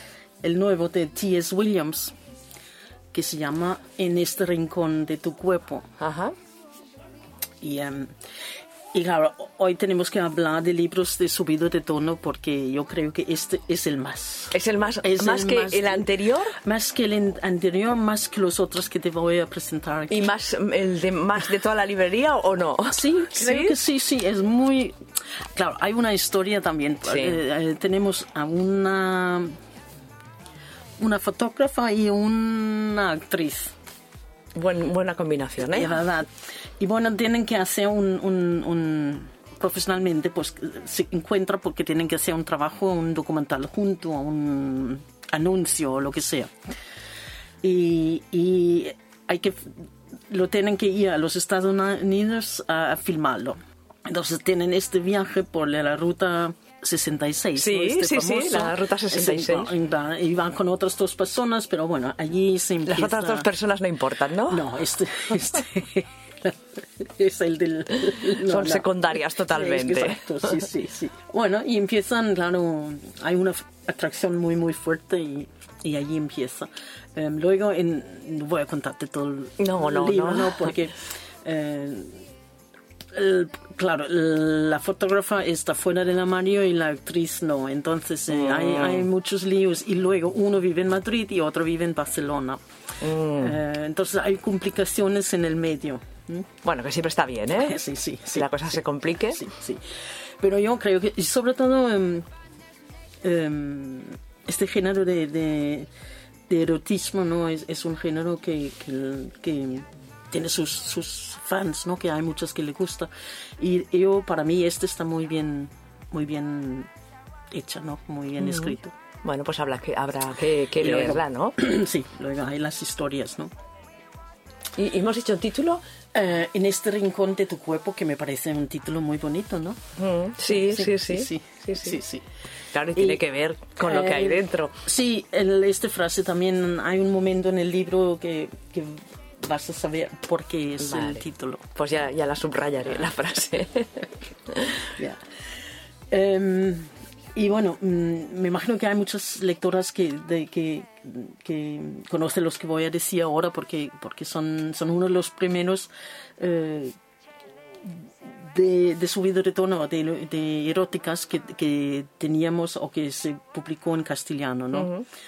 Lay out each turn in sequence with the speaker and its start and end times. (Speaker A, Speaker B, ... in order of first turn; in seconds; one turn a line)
Speaker A: 0.4-2.1
Speaker A: 3.1-5.9
Speaker B: 6.0-6.3
Speaker A: 7.6-8.1
Speaker A: 8.9-20.3
Speaker B: 14.5-16.6
Speaker B: 20.1-23.7
Speaker A: 22.9-25.0
Speaker A: 25.5-29.5
Speaker B: 27.1-27.4
Speaker A: 31.0-33.7
Speaker B: 34.5-35.9
Speaker A: 35.6-36.3
Speaker A: 36.8-46.5
Speaker A: 47.6-63.5
Speaker B: 57.6-59.8
Speaker B: 62.9-64.6
Speaker A: 64.5-82.2
Speaker B: 68.3-70.5
Speaker B: 79.6-80.7
Speaker A: 83.1-92.6
Speaker B: 88.3-89.1
Speaker B: 93.0-93.6
Speaker A: 93.3-96.5
Speaker B: 96.6-97.8
Speaker A: 97.5-98.7
Speaker B: 98.3-99.5
Speaker A: 99.3-99.8
Speaker A: 100.4-102.3
Speaker A: 103.2-105.9
Speaker A: 106.5-116.9
Speaker A: 117.5-118.9
Speaker B: 118.4-121.6
Speaker A: 120.8-123.5
Speaker B: 124.8-125.8
Speaker A: 126.1-129.8
Speaker B: 130.0-132.0
Speaker A: 130.4-132.2
Speaker B: 132.7-134.8
Speaker A: 132.9-133.2
Speaker A: 133.8-141.7
Speaker B: 140.8-141.2
Speaker B: 141.8-144.9
Speaker A: 146.1-156.9
Speaker A: 157.8-164.9
Speaker B: 164.8-165.0